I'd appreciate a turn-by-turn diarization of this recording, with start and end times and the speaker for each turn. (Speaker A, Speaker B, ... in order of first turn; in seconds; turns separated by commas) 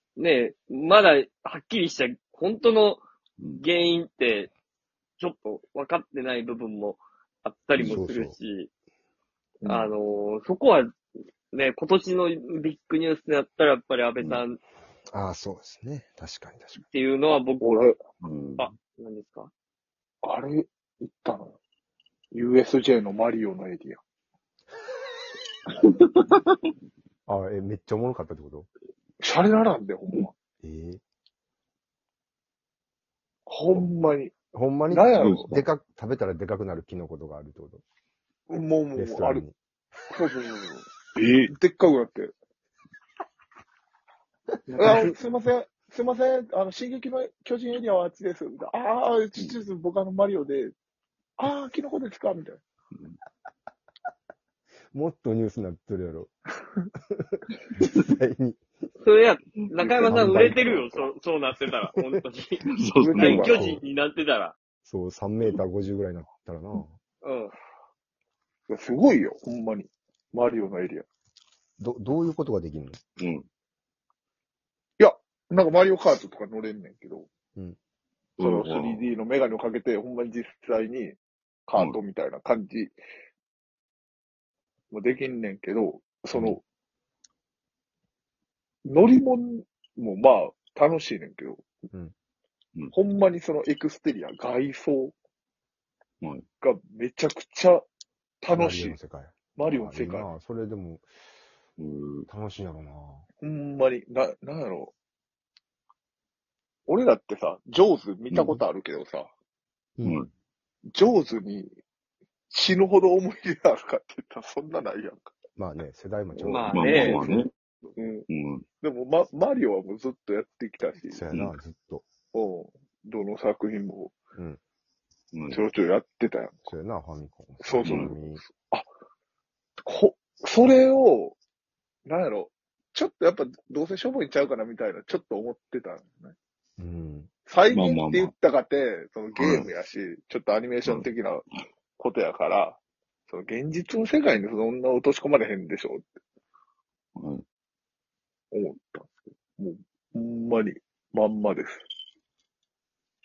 Speaker A: 0.2-3.0, Speaker A: 3.6-4.5, Speaker A: 5.2-8.7, Speaker B: 7.8-8.4, Speaker C: 9.6-9.9, Speaker A: 9.7-10.9, Speaker A: 11.5-14.6, Speaker B: 15.1-16.8, Speaker A: 16.8-17.7, Speaker C: 17.6-17.9, Speaker D: 18.2-18.7, Speaker A: 18.6-19.5, Speaker C: 20.2-21.5, Speaker C: 22.3-24.0, Speaker D: 26.0-26.3, Speaker B: 27.3-28.7, Speaker C: 29.2-30.3, Speaker B: 30.6-31.0, Speaker C: 33.5-34.4, Speaker B: 34.5-37.8, Speaker C: 34.9-35.5, Speaker D: 35.2-35.7, Speaker C: 38.5-39.5, Speaker B: 39.0-39.5, Speaker C: 40.1-42.3, Speaker A: 44.7-45.1, Speaker C: 44.8-50.7, Speaker C: 51.4-52.6, Speaker B: 54.9-56.3, Speaker B: 57.8-58.6, Speaker A: 59.0-64.5, Speaker C: 59.8-60.2, Speaker B: 60.1-61.0, Speaker D: 62.7-63.6, Speaker C: 63.0-63.7, Speaker B: 63.3-63.8, Speaker B: 64.8-67.0, Speaker A: 67.2-67.5, Speaker C: 68.7-71.0, Speaker B: 71.8-73.0, Speaker D: 73.2-73.5, Speaker C: 75.0-77.3, Speaker D: 78.4-79.1, Speaker C: 78.4-83.0, Speaker C: 84.9-86.6, Speaker C: 88.8-91.7, Speaker C: 92.9-95.1, Speaker C: 96.6-97.9, Speaker C: 98.4-99.0, Speaker B: 98.5-101.1, Speaker C: 99.6-100.3, Speaker D: 101.8-102.3, Speaker B: 102.3-103.2, Speaker C: 103.4-104.9, Speaker C: 106.9-109.3, Speaker D: 108.3-108.6, Speaker D: 110.0-110.3, Speaker C: 110.9-111.7, Speaker C: 112.5-115.3, Speaker B: 115.6-117.2, Speaker A: 116.5-117.4, Speaker D: 116.7-117.5, Speaker D: 118.3-118.7, Speaker C: 118.8-121.2, Speaker B: 121.1-122.1, Speaker D: 121.3-121.6, Speaker C: 122.3-124.2, Speaker D: 125.3-125.6, Speaker C: 125.5-126.7, Speaker B: 126.7-128.4, Speaker C: 127.6-128.9, Speaker D: 127.8-128.1, Speaker C: 129.9-131.4, Speaker C: 132.1-136.3, Speaker B: 136.8-137.3, Speaker C: 137.5-141.5, Speaker D: 137.7-138.3, Speaker D: 139.4-139.7, Speaker C: 142.0-146.1, Speaker D: 147.2-147.4, Speaker C: 148.5-151.8